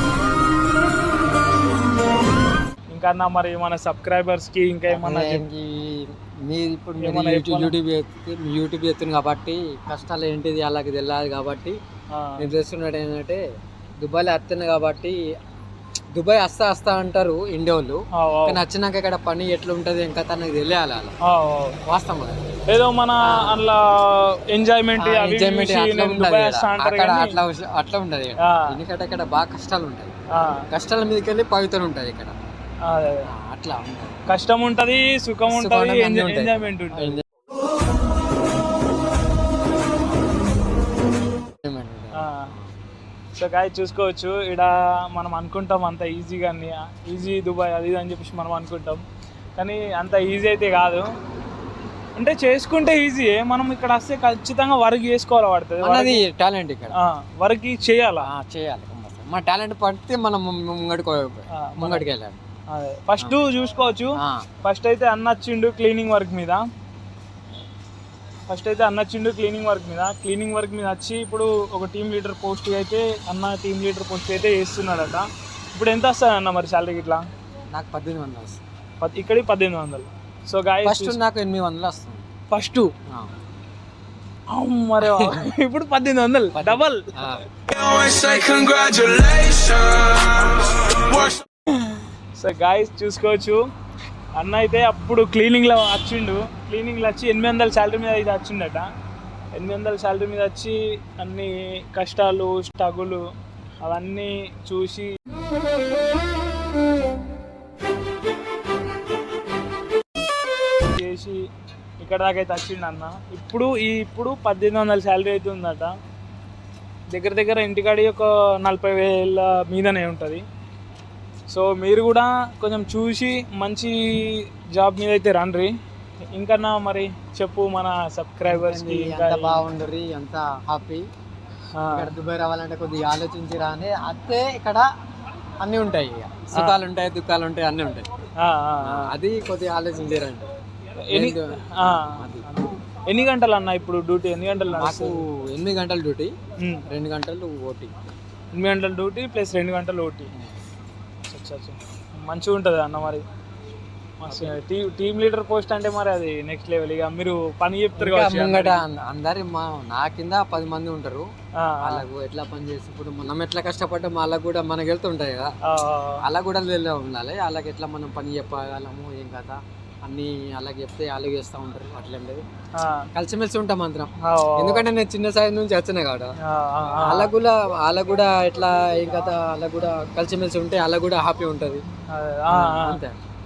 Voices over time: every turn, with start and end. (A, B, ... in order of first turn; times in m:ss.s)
0:02.9-0:05.4 A
0:04.9-0:11.8 B
0:07.0-0:07.7 A
0:12.1-0:12.5 A
0:12.4-0:13.4 B
0:14.0-0:15.2 B
0:16.1-0:21.2 B
0:18.1-0:18.6 A
0:21.2-0:21.8 A
0:21.8-0:22.6 B
0:22.7-0:27.4 A
0:23.2-0:23.6 B
0:25.0-0:32.4 B
0:28.4-0:28.8 A
0:30.3-0:30.7 A
0:32.8-0:33.3 A
0:33.2-0:34.2 B
0:34.3-0:37.2 A
0:35.5-0:37.2 B
0:41.6-0:42.8 B
0:42.1-0:42.5 A
0:43.4-0:49.0 A
0:49.6-0:51.1 A
0:52.2-0:56.2 A
0:55.8-0:57.0 B
0:56.9-0:58.3 A
0:58.2-1:02.4 B
1:01.5-1:02.0 A
1:02.7-1:06.6 A
1:04.1-1:04.4 B
1:08.5-1:17.2 A
1:17.7-1:18.6 B
1:19.0-1:21.2 A
1:20.8-1:22.2 B
1:22.5-1:22.9 A
1:24.5-1:33.6 A
1:25.0-1:25.5 B
1:26.5-1:27.4 B
1:34.4-1:38.9 A
1:39.6-1:43.2 A
1:43.8-1:45.1 A
1:50.8-1:51.5 A
1:52.0-1:55.9 A
1:57.1-2:00.4 A
2:01.5-2:05.7 A
2:06.3-2:09.6 A
2:08.4-2:11.0 B
2:11.7-2:12.1 A
2:11.9-2:14.9 B
2:15.6-2:18.1 B
2:16.5-2:16.8 A
2:18.4-2:19.1 A
2:18.8-2:20.5 B
2:21.0-2:25.2 A
2:21.1-2:22.5 B
2:24.7-2:26.3 B
2:26.6-2:26.8 A
2:26.9-2:27.9 B
2:28.6-2:30.3 A
2:31.2-2:33.2 A
2:34.2-2:38.8 A
2:34.3-2:34.6 B
2:38.0-2:41.3 B
2:41.6-2:42.0 A
2:41.8-2:45.5 B
2:45.6-2:46.2 A
2:46.2-2:52.4 B
2:52.8-2:53.1 A
2:53.1-2:56.3 B
2:54.2-2:54.8 A
2:56.4-2:57.3 A
2:57.0-3:01.8 B
3:02.1-3:03.0 A
3:02.5-3:03.2 B